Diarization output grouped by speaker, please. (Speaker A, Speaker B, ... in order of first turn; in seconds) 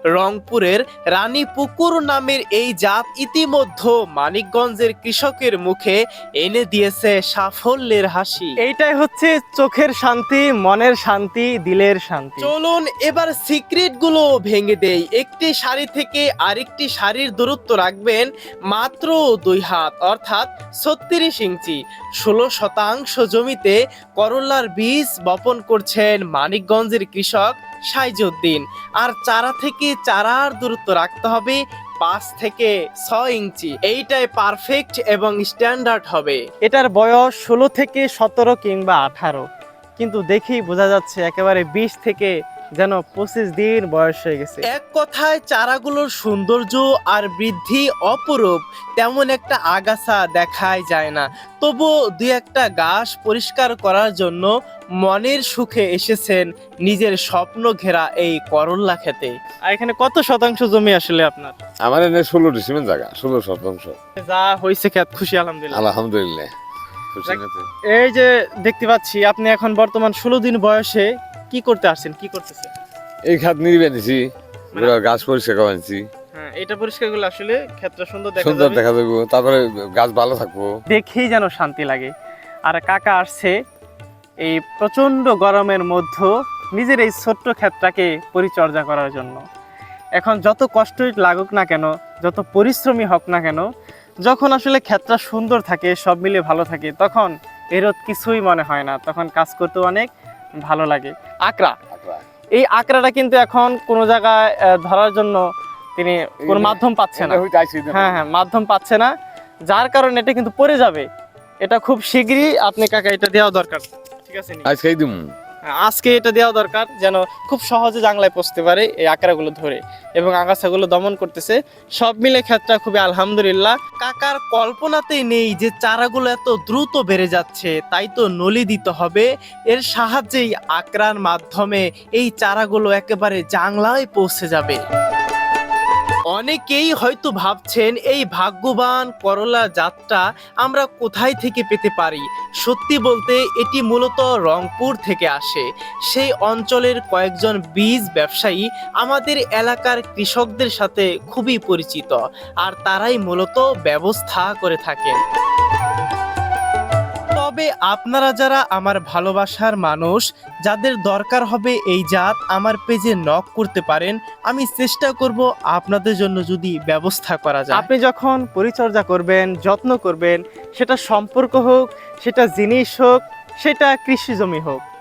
Speaker A: 0.1-8.6, 12.4-36.4, 44.6-54.5, 55.0-59.4, 124.0-134.8, 136.3-155.2, 157.3-167.9
Speaker B: 8.6-12.5, 36.6-39.5, 40.0-44.6, 59.7-61.5, 64.2-65.8, 67.2-72.7, 76.3-78.8, 80.9-82.1, 82.6-83.6, 84.4-89.4, 90.2-93.7, 94.2-100.1, 100.6-101.8, 102.5-105.4, 106.0-109.1, 109.7-111.1, 111.6-114.7, 115.7-123.8, 167.7-174.8
Speaker C: 61.8-64.0, 65.7-66.5, 67.1-67.7, 73.2-76.0, 78.4-80.7, 101.9-102.2, 106.4-108.2, 114.6-115.3